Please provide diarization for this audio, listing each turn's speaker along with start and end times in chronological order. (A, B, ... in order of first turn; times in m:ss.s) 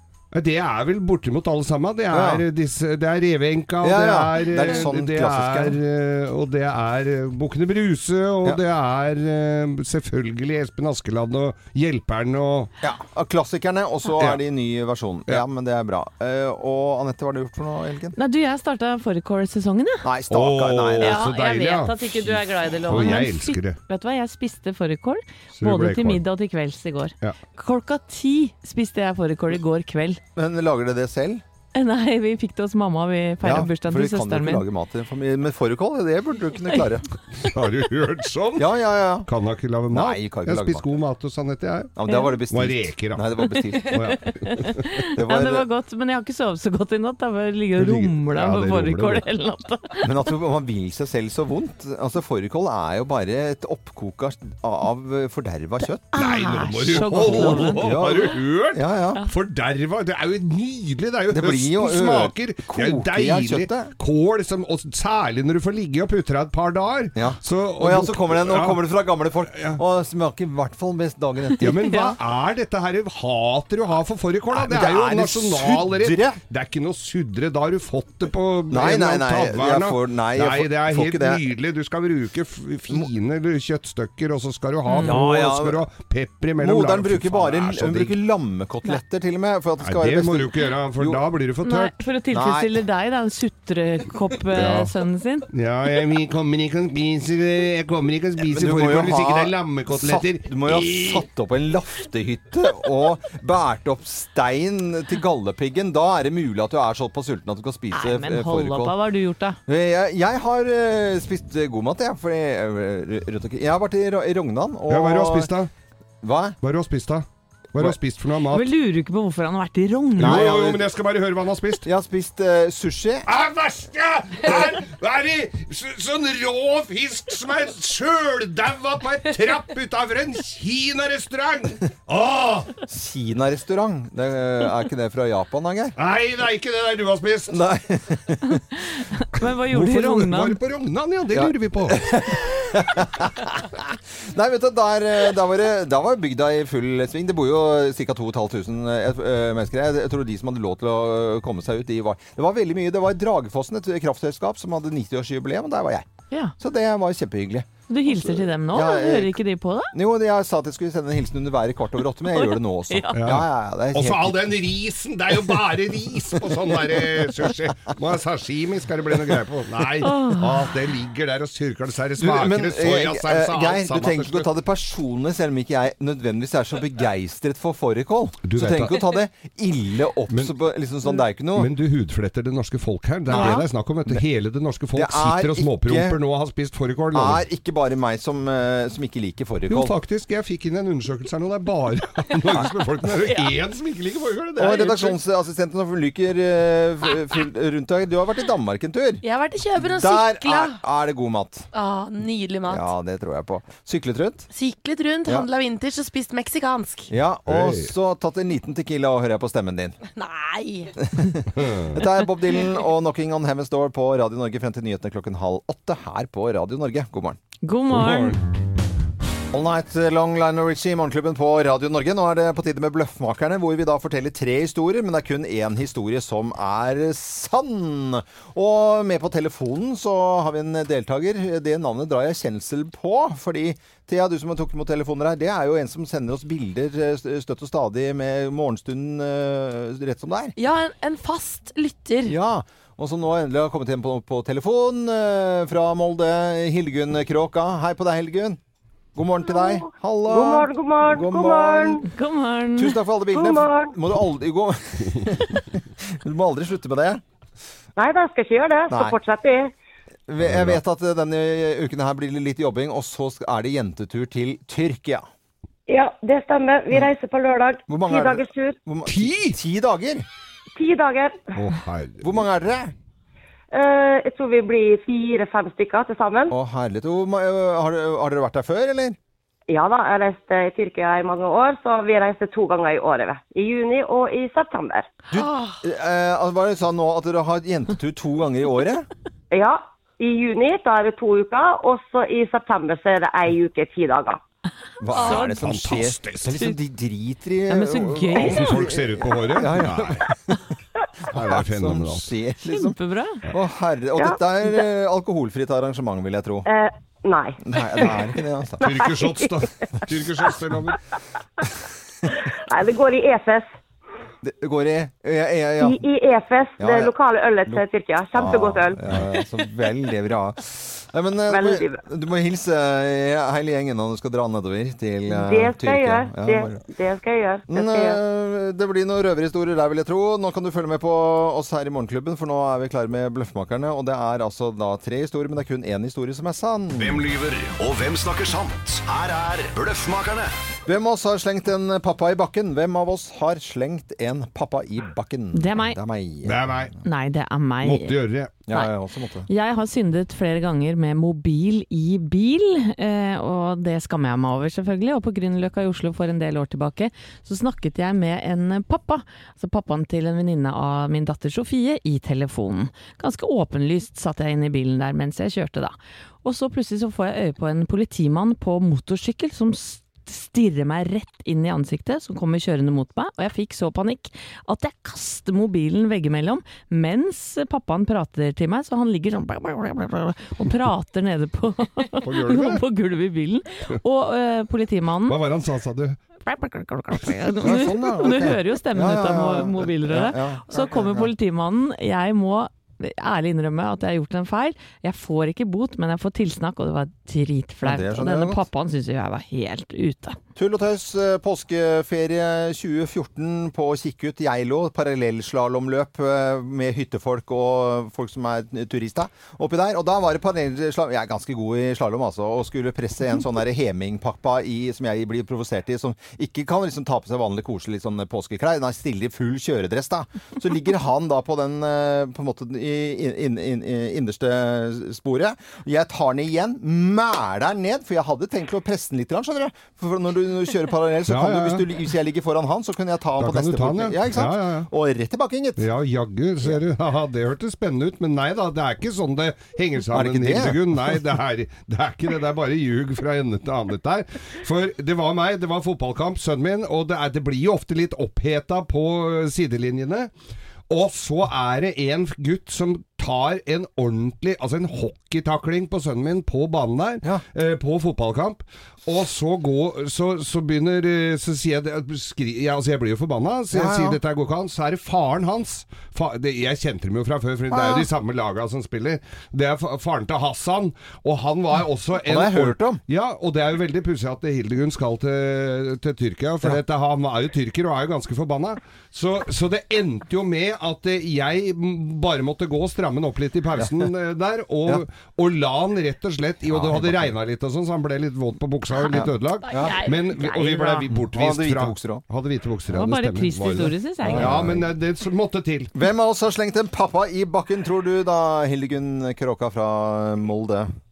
0:00.3-0:12.7 A
0:02.1-0:02.4 B
0:03.8-0:05.8 B
0:12.8-0:18.2 B
0:18.2-0:20.1 C
0:20.0-0:21.2 B
0:20.3-0:23.8 A
0:21.0-0:30.2 C
0:25.6-0:26.2 A
0:30.4-0:31.4 B
0:31.7-0:34.7 C
0:33.4-0:37.1 B
0:37.4-0:38.7 A
0:38.6-0:39.3 B
0:39.3-0:41.9 A
0:39.9-0:40.8 B
0:42.0-0:44.1 B
0:42.5-0:43.3 A
0:43.8-0:45.0 A
0:43.9-0:50.1 C
0:45.1-0:45.7 B
0:47.8-0:49.3 A
0:50.0-0:56.1 B
0:56.1-0:58.0 C
0:56.2-1:08.9 A
0:57.0-0:59.2 B
1:01.3-1:03.9 B
1:07.2-1:11.8 B
1:09.5-1:09.8 A
1:11.6-1:12.2 C
1:11.6-1:28.2 A
1:14.5-1:16.4 B
1:18.7-1:21.4 B
1:24.8-1:25.2 C
1:25.0-1:25.8 B
1:26.6-1:31.2 B
1:29.8-1:32.0 A
1:31.6-1:35.5 C
1:32.3-1:32.8 B
1:34.5-1:34.9 A
1:35.5-1:41.2 A
1:38.4-1:49.0 B
1:47.9-1:49.6 C
1:49.7-1:55.5 B
1:54.9-1:55.7 A
1:56.2-1:56.6 B
1:56.6-1:58.7 A
1:58.4-2:00.5 C
2:00.2-2:01.9 A
2:00.2-2:00.9 B
2:01.8-2:03.3 B
2:03.3-2:12.8 A
2:12.9-2:16.0 B
2:16.0-2:17.6 A
2:17.5-2:18.6 B
2:18.7-2:20.6 C
2:19.5-2:22.1 A
2:21.3-2:23.6 B
2:24.3-2:36.1 B
2:36.3-2:36.6 C
2:36.6-2:37.7 B
2:37.9-2:39.9 C
2:38.3-2:39.4 B
2:39.9-2:44.4 B
2:42.4-2:43.2 C
2:43.1-2:54.5 A
2:50.0-2:50.5 C
2:52.2-3:01.7 B
2:58.4-2:59.0 A
3:01.5-3:07.4 A
3:03.3-3:03.6 C
3:03.3-3:04.2 B
3:03.3-3:03.6 D
3:05.0-3:06.2 B
3:07.1-3:09.9 B
3:09.7-3:15.2 A
3:14.6-3:19.2 B
3:19.2-3:20.8 D
3:19.8-3:21.7 B
3:21.7-3:22.9 D
3:22.7-3:24.5 B
3:24.5-3:27.1 D
3:27.1-3:30.0 B
3:27.5-3:27.9 A
3:30.2-3:30.9 D
3:31.0-3:37.4 B
3:31.6-3:32.1 A
3:37.6-3:38.4 C
3:37.9-3:38.4 A
3:39.5-4:00.5 B
4:00.6-4:02.3 D
4:02.2-4:08.6 B
4:09.2-4:12.0 B
4:09.4-4:12.0 E
4:12.0-4:13.0 C
4:12.8-4:17.2 B
4:13.3-4:14.0 E
4:18.0-4:19.7 E
4:18.9-4:19.2 B
4:20.3-4:25.3 B
4:20.4-4:20.8 A
4:25.9-4:28.8 E
4:27.9-4:30.3 B
4:29.1-4:29.6 A
4:30.8-4:31.4 E
4:31.6-4:32.2 A
4:32.2-4:32.9 B
4:33.7-4:36.5 E
4:36.5-4:39.2 B
4:39.7-4:45.1 E
4:45.3-4:49.1 B
4:45.4-4:45.8 D
4:49.5-4:54.4 E
4:55.0-5:00.6 B
4:55.1-4:55.6 C
4:55.3-4:56.7 A
4:57.7-4:58.9 C
4:58.3-5:00.4 A
5:01.3-5:03.0 B
5:01.3-5:02.3 A
5:02.7-5:03.4 C
5:03.5-5:06.7 B
5:04.2-5:04.9 E
5:06.7-5:09.7 E
5:07.6-5:08.8 B
5:08.8-5:11.0 A
5:12.3-5:13.7 E
5:14.4-5:16.0 B
5:15.8-5:19.0 E
5:16.8-5:17.1 B
5:18.4-5:26.8 B
5:21.5-5:22.0 E
5:25.3-5:28.2 E
5:27.7-5:37.2 B
5:37.0-5:40.5 F
5:40.9-5:46.6 B
5:45.5-5:46.0 C
5:46.4-5:46.9 A
5:47.0-5:48.2 C
5:47.8-5:48.6 A
5:48.7-5:49.5 B
5:49.5-6:25.4 C
6:22.2-6:22.8 A
6:25.3-6:26.2 A
6:26.4-6:40.4 C
6:27.6-6:31.3 B
6:37.8-6:38.6 B
6:40.6-7:15.8 B
7:11.3-7:11.9 A
7:13.4-7:14.9 A
7:15.8-7:30.3 A
7:20.1-7:20.8 B
7:30.9-8:15.9 A
7:43.7-7:44.2 B
7:47.7-7:48.1 B
7:52.2-7:53.0 B
8:03.8-8:04.1 B
8:06.7-8:07.3 B
8:09.1-8:10.0 B
8:09.7-8:11.1 C
8:11.1-8:12.2 B
8:12.9-8:14.7 C
8:14.2-8:14.9 B
8:16.0-8:20.9 B